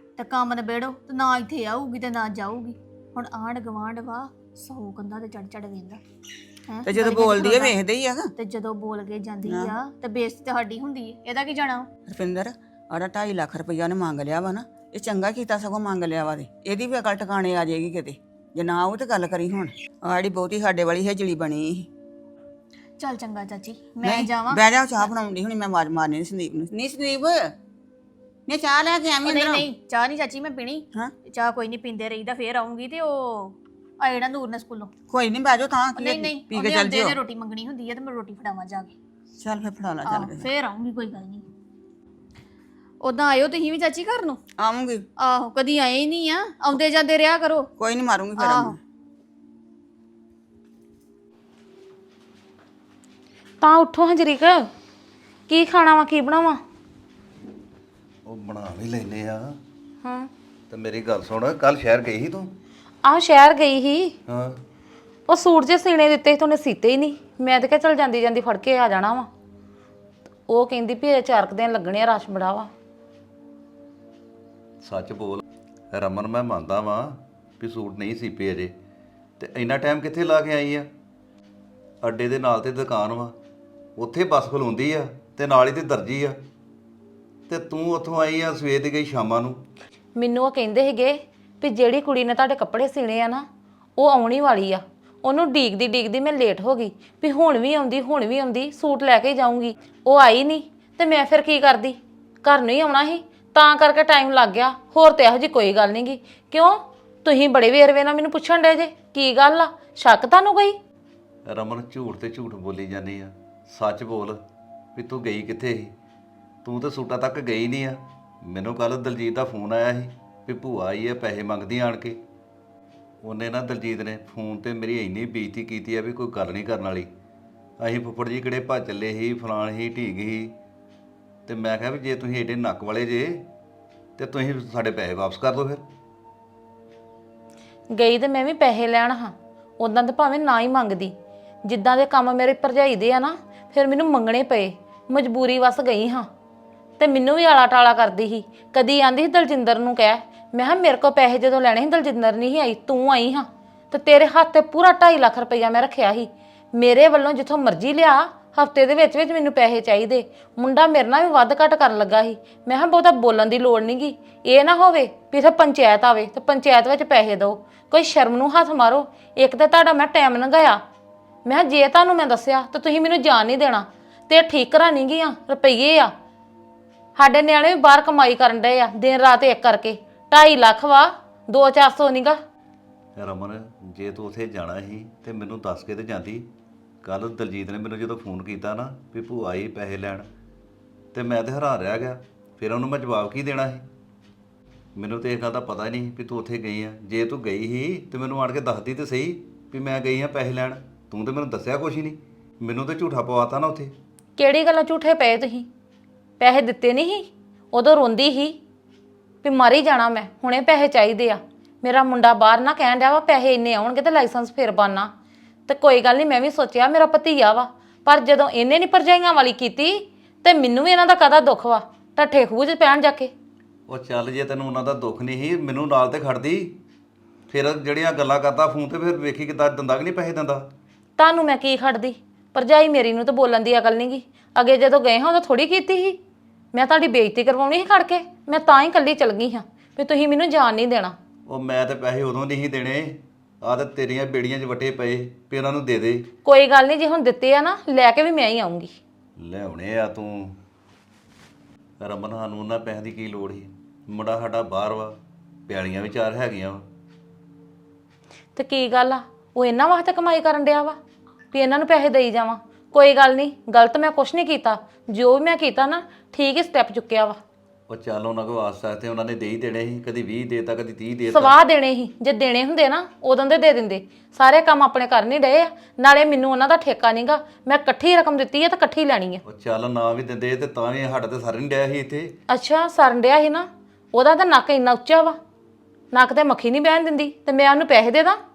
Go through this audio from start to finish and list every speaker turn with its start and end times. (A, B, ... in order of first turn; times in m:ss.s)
0:00.2-0:06.0 A
0:06.7-0:07.8 A
0:06.8-0:08.3 B
0:08.4-0:11.9 A
0:09.4-0:09.7 B
0:12.1-0:21.9 B
0:23.0-0:25.1 A
0:24.0-0:27.5 B
0:28.5-0:29.7 B
0:29.2-0:34.9 A
0:35.1-0:37.2 B
0:36.0-0:38.9 A
0:39.4-0:40.5 B
0:40.0-0:41.4 A
0:43.0-0:44.4 A
0:44.6-0:45.0 B
0:45.2-0:47.7 A
0:47.8-0:48.8 B
0:48.4-0:48.8 A
0:53.6-0:54.7 C
0:55.5-0:56.6 C
0:58.2-0:59.6 D
1:00.0-1:00.3 C
1:00.7-1:02.5 D
1:03.0-1:04.2 C
1:04.3-1:04.6 D
1:05.3-1:09.3 C
1:10.5-1:12.7 C
1:14.8-1:15.4 D
1:15.9-1:18.7 D
1:19.4-1:20.9 D
1:22.0-1:23.3 D
1:24.0-1:26.4 D
1:27.5-1:29.6 D
1:30.2-1:33.4 C
1:34.0-1:50.8 C
1:51.4-1:54.4 D
1:54.9-1:55.9 D
1:56.6-2:02.2 D
2:03.2-2:07.1 D
2:07.8-2:10.5 D
2:11.4-2:13.5 D
2:14.2-2:15.8 D
2:17.9-2:26.3 C
2:27.0-2:50.8 C
2:51.4-2:56.1 C
2:57.2-3:02.4 C
3:03.2-3:06.5 D
3:07.0-3:10.2 D
3:11.1-3:13.8 D
3:15.0-3:23.9 D
3:24.4-3:25.7 C
3:26.4-3:28.6 C
3:29.4-3:35.1 C
3:35.7-3:43.3 C
3:43.9-3:46.8 D
3:47.5-3:50.6 D
3:51.2-3:56.2 C
3:56.7-4:01.2 C
4:01.5-4:06.3 D
4:06.4-4:09.0 C
4:09.4-4:10.6 D
4:12.0-4:15.1 D
4:15.7-4:16.8 D
4:18.6-4:21.0 C
4:21.5-4:27.4 C
4:27.9-4:31.6 D
4:31.3-4:39.4 C
4:39.4-4:42.3 D
4:42.5-4:45.4 C
4:46.1-4:48.4 C